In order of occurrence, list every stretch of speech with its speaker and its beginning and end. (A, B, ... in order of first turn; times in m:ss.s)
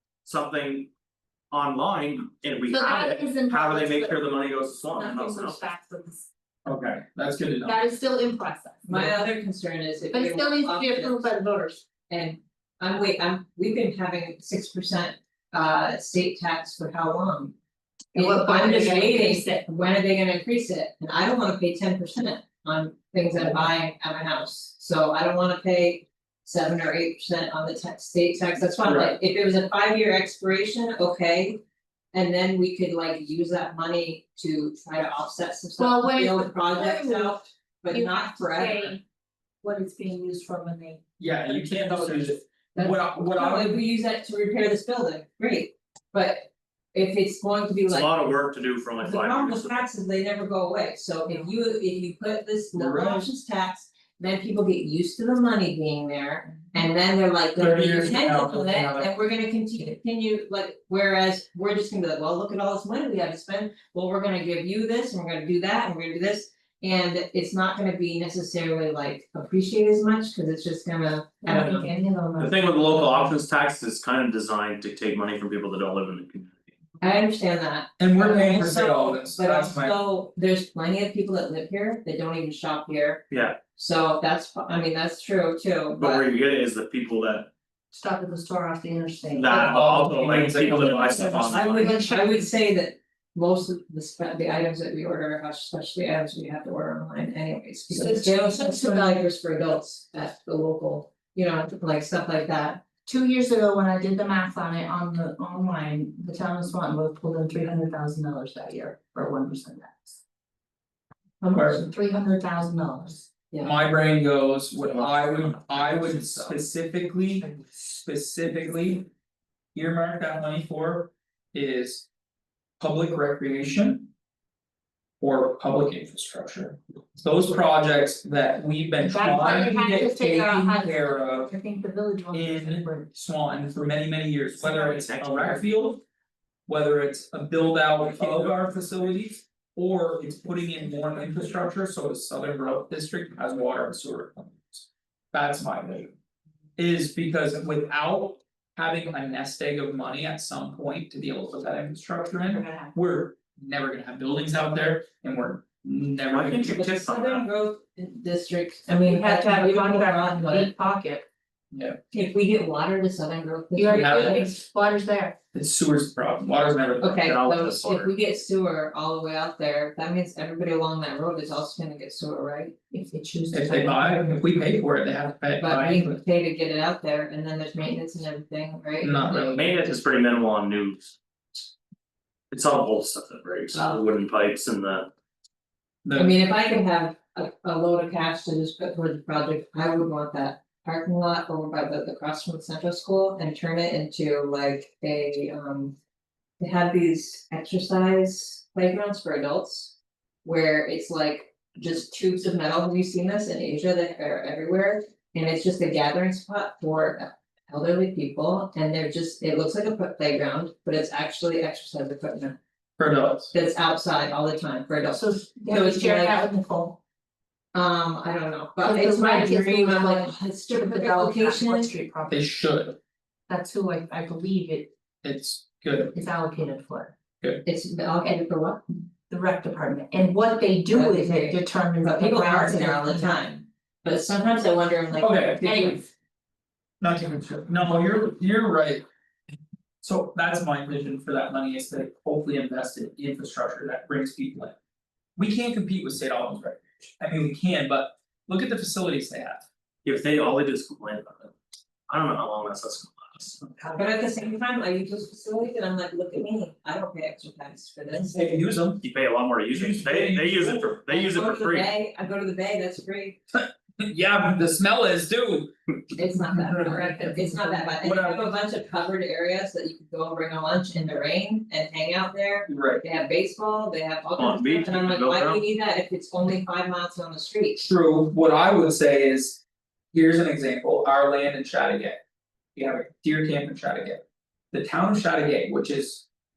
0:00.2-0:00.9 A
0:01.5-0:05.7 A
0:02.7-0:04.2 B
0:04.9-0:06.3 B
0:06.6-0:07.8 C
0:07.6-0:09.2 B
0:08.9-0:11.3 D
0:10.1-0:11.8 B
0:12.1-0:17.6 D
0:18.1-0:19.6 B
0:18.1-0:31.6 D
0:28.8-0:29.2 C
0:32.1-0:39.0 D
0:35.8-0:39.0 B
0:39.6-0:42.3 B
0:41.2-0:43.8 C
0:42.8-0:48.3 D
0:47.9-0:49.9 A
0:49.0-1:12.4 D
0:52.8-0:53.3 C
0:57.6-0:59.1 C
1:11.4-1:12.6 B
1:12.4-1:16.7 A
1:17.0-1:26.3 D
1:18.0-1:20.0 C
1:23.3-1:23.6 A
1:26.0-1:27.5 A
1:27.9-1:30.0 B
1:29.3-1:31.9 A
1:29.5-1:31.7 C
1:30.8-1:32.5 B
1:31.5-1:42.8 D
1:37.9-1:39.2 B
1:43.1-1:50.2 B
1:51.4-1:51.8 D
1:51.5-1:51.8 C
1:51.5-1:53.2 B
1:53.6-1:59.1 C
1:54.8-1:56.6 A
1:59.8-2:02.1 C
2:02.8-2:04.1 C
2:05.2-2:11.5 C
2:09.0-2:13.1 B
2:12.3-2:16.0 C
2:14.6-2:15.6 A
2:16.7-2:26.1 C
2:18.1-2:18.5 A
2:26.8-2:36.8 C
2:32.5-2:32.9 B
2:36.3-2:37.5 A
2:36.7-2:40.7 D
2:39.0-2:41.3 B
2:41.7-2:42.0 C
2:42.1-2:44.5 D
2:43.8-2:45.4 B
2:43.9-2:44.5 C
2:45.5-2:47.3 C
2:47.0-2:52.8 D
2:47.2-2:48.1 A
2:52.9-2:54.4 B
2:53.5-2:56.2 C
2:55.6-2:59.6 D
2:59.0-2:59.6 C
2:59.5-3:01.2 A
3:02.5-3:05.1 A
3:03.7-3:04.0 D
3:06.0-3:06.4 C
3:06.2-3:16.0 D
3:16.6-3:32.6 D
3:33.0-3:33.5 C
3:33.5-3:36.4 D
3:35.1-3:37.0 B
3:37.7-3:41.9 D
3:38.8-3:42.4 B
3:42.3-3:43.0 C
3:43.5-3:44.9 B
3:45.2-3:46.1 C
3:46.1-3:47.2 B
3:47.6-3:48.8 D
3:49.3-3:53.4 B
3:50.9-3:56.0 D
3:55.2-3:55.9 C
3:55.6-3:56.1 B
3:57.0-3:59.0 C
4:00.0-4:04.8 C
4:05.4-4:09.7 C
4:10.0-4:11.5 A
4:12.1-4:13.6 A
4:13.6-4:13.9 C
4:13.9-4:18.6 D
4:18.1-4:19.0 C
4:19.0-4:21.9 A
4:19.7-4:21.0 C
4:21.1-4:23.4 D
4:23.5-4:25.7 C
4:26.2-4:37.8 D
4:26.8-4:27.9 B
4:28.0-4:28.5 C
4:32.7-4:33.0 C
4:34.4-4:35.6 A
4:37.8-4:39.6 C
4:40.1-4:42.2 C
4:42.8-4:46.3 C